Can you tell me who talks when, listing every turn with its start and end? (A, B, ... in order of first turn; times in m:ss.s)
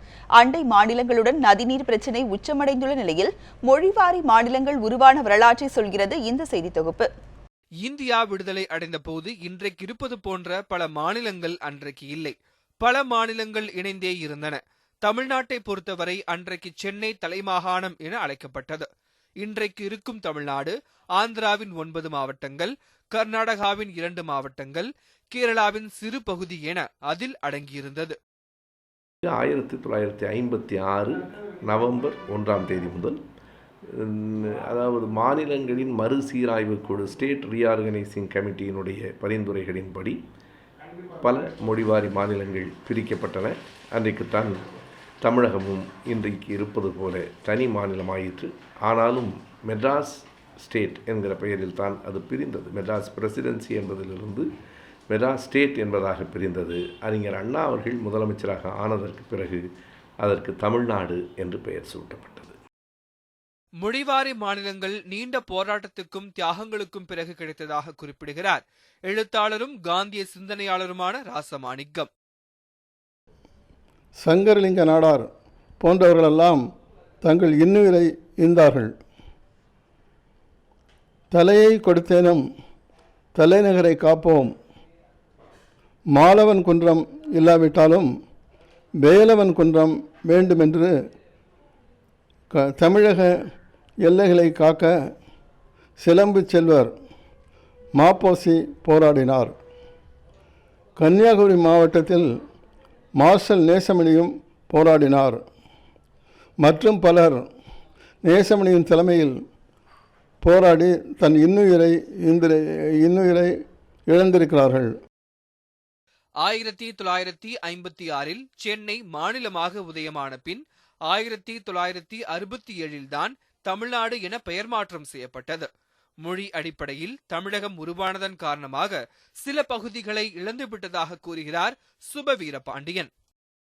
0:00.4-0:07.1 A
0:07.8-0:18.9 B
0:19.4-0:28.2 B
0:29.3-0:33.2 C
0:33.9-0:40.2 C
0:41.2-0:44.6 C
0:45.2-0:54.5 C
0:55.1-0:59.6 C
1:00.2-1:02.6 C
1:03.8-1:12.1 B
1:14.2-1:15.3 D
1:15.8-1:16.6 D
1:17.2-1:18.9 D
1:21.3-1:22.4 D
1:23.4-1:24.5 D
1:26.1-1:28.1 D
1:29.0-1:30.9 D
1:32.5-1:33.4 D
1:34.0-1:34.9 D
1:36.0-1:36.9 D
1:38.0-1:39.6 D
1:41.0-1:42.3 D
1:43.2-1:45.4 D
1:46.6-1:47.5 D
1:48.2-1:49.4 D
1:50.4-1:53.5 D
1:54.1-1:54.9 D
1:56.4-2:05.7 B
2:06.2-2:13.1 B